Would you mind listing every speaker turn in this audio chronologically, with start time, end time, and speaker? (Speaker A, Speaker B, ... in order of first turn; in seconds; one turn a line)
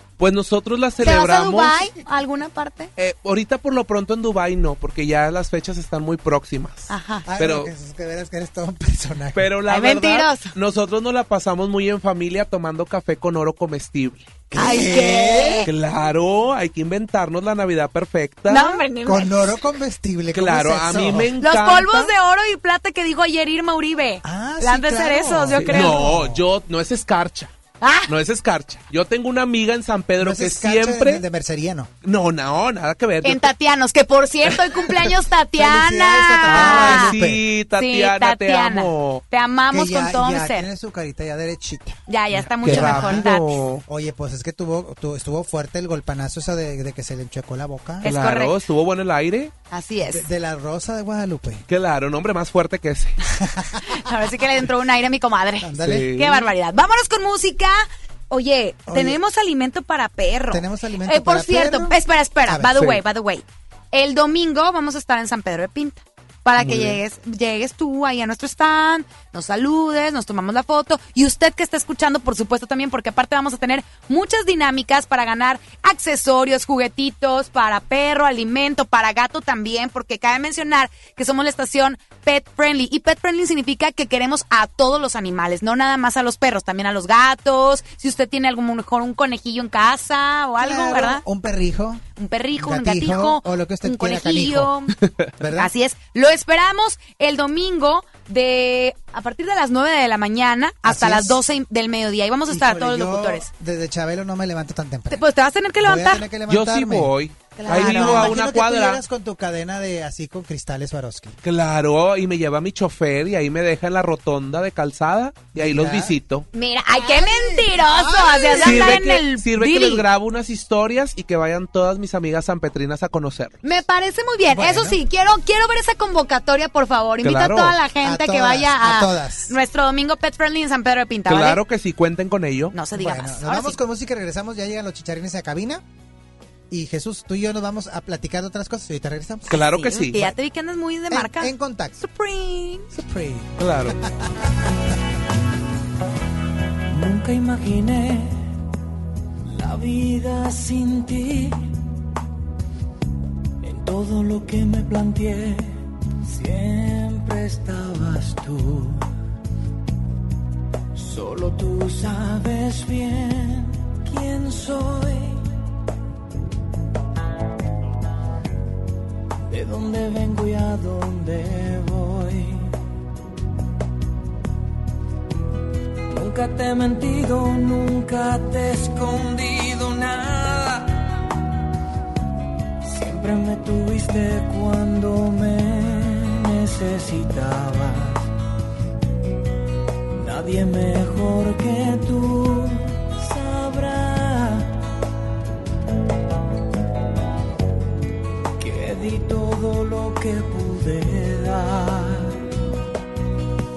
Speaker A: 0.2-1.9
Speaker B: 1.0-2.9
Speaker A: 3.0-7.7
Speaker B: 6.9-7.2
Speaker C: 7.2-9.5
Speaker A: 9.3-14.4
Speaker B: 9.7-10.5
Speaker C: 14.5-15.6
Speaker B: 14.6-15.7
Speaker A: 15.6-18.8
Speaker B: 18.5-19.4
Speaker C: 19.0-21.3
Speaker A: 20.3-22.1
Speaker B: 21.4-26.0
Speaker C: 24.2-26.4
Speaker A: 25.6-27.5
Speaker B: 27.8-28.1
Speaker A: 28.1-31.2
Speaker C: 30.2-31.9
Speaker A: 32.0-33.5
Speaker B: 33.2-37.2
Speaker C: 35.6-37.4
Speaker A: 36.5-39.2
Speaker B: 37.8-40.6
Speaker C: 39.7-43.3
Speaker B: 42.1-43.6
Speaker A: 42.6-43.8
Speaker C: 43.9-48.1
Speaker B: 48.0-48.5
Speaker A: 48.0-49.5
Speaker B: 49.7-50.3
Speaker C: 50.1-51.6
Speaker A: 51.7-53.2
Speaker C: 53.4-53.9
Speaker B: 53.9-91.2
Speaker C: 55.6-56.1
Speaker A: 55.8-56.5
Speaker C: 58.9-59.2
Speaker C: 60.5-63.0
Speaker A: 66.6-67.0
Speaker C: 90.6-92.0
Speaker B: 92.2-94.9
Speaker C: 92.6-94.7
Speaker C: 95.4-95.7
Speaker B: 95.6-103.5
Speaker C: 100.8-101.4
Speaker C: 102.5-105.2
Speaker B: 105.1-106.2
Speaker C: 105.8-107.1
Speaker A: 106.5-109.0
Speaker B: 107.6-108.4
Speaker C: 107.7-111.4
Speaker A: 111.4-116.5
Speaker C: 115.5-116.1
Speaker B: 116.5-120.0
Speaker C: 116.9-119.0
Speaker A: 118.6-123.6
Speaker B: 123.6-131.6
Speaker C: 124.5-125.0
Speaker A: 127.2-127.8
Speaker C: 128.0-129.5
Speaker A: 131.3-132.7
Speaker B: 132.7-133.8
Speaker C: 132.9-135.8
Speaker C: 136.7-139.5
Speaker B: 139.5-142.9
Speaker A: 139.5-140.3
Speaker C: 141.1-142.0
Speaker C: 142.9-144.1
Speaker A: 143.6-143.9
Speaker D: 146.9-148.4
Speaker D: 149.5-151.7
Speaker D: 153.6-159.1
Speaker D: 160.9-165.4
Speaker D: 169.5-172.7
Speaker D: 176.1-180.9
Speaker D: 182.9-188.2
Speaker D: 190.2-194.7
Speaker D: 198.6-202.4